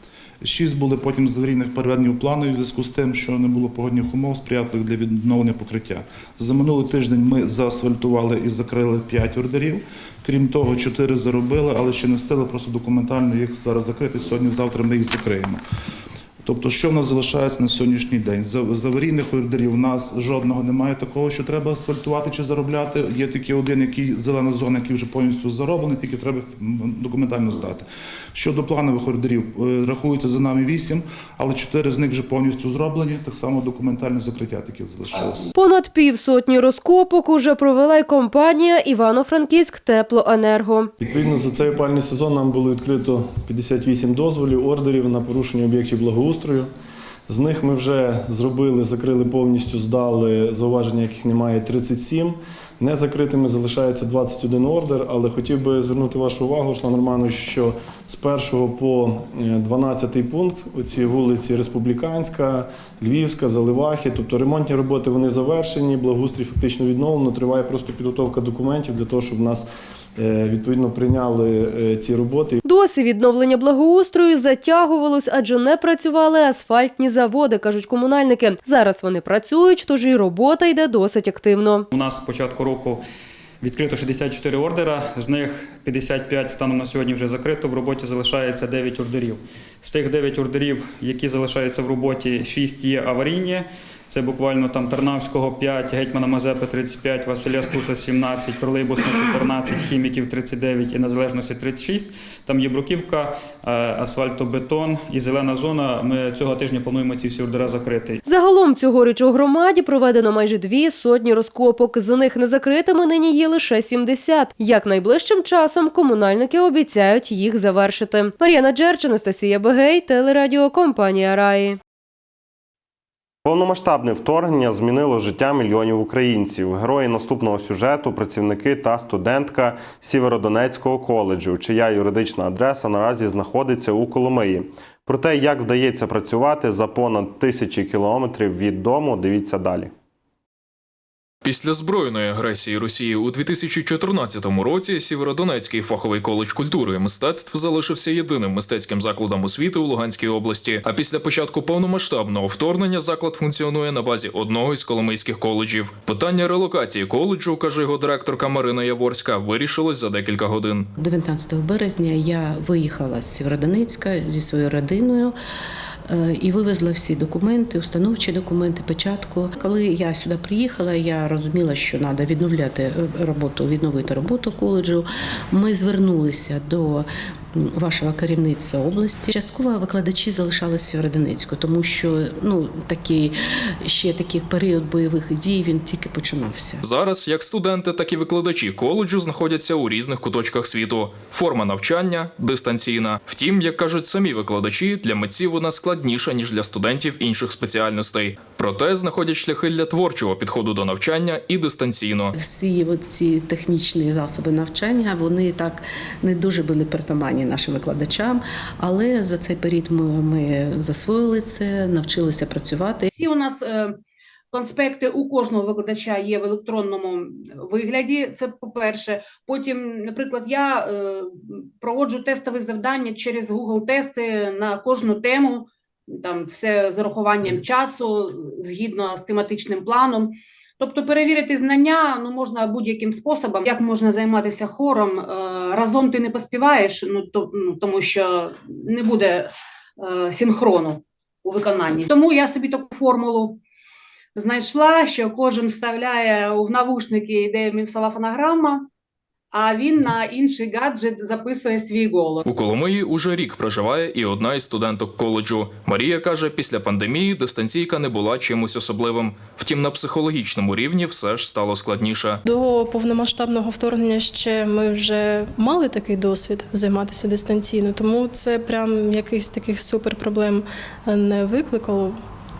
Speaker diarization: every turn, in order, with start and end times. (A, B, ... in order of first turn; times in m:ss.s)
0:00.4-0:15.6 A
0:16.4-0:35.4 A
0:35.5-0:40.9 B
0:41.0-0:46.7 C
0:47.3-1:12.6 C
1:12.6-1:21.8 B
1:21.9-1:23.0 D
1:23.6-1:48.2 D
1:48.2-2:01.8 B
2:03.4-2:19.9 E
2:21.4-2:40.9 F
2:41.0-2:45.4 G
2:46.1-3:06.8 G
3:06.8-3:22.3 F
3:22.3-3:33.1 G
3:33.1-3:34.0 H
3:34.5-4:03.6 H
4:04.3-4:08.9 H
4:09.5-4:12.4 H
4:12.4-4:22.4 F
4:22.4-4:32.2 I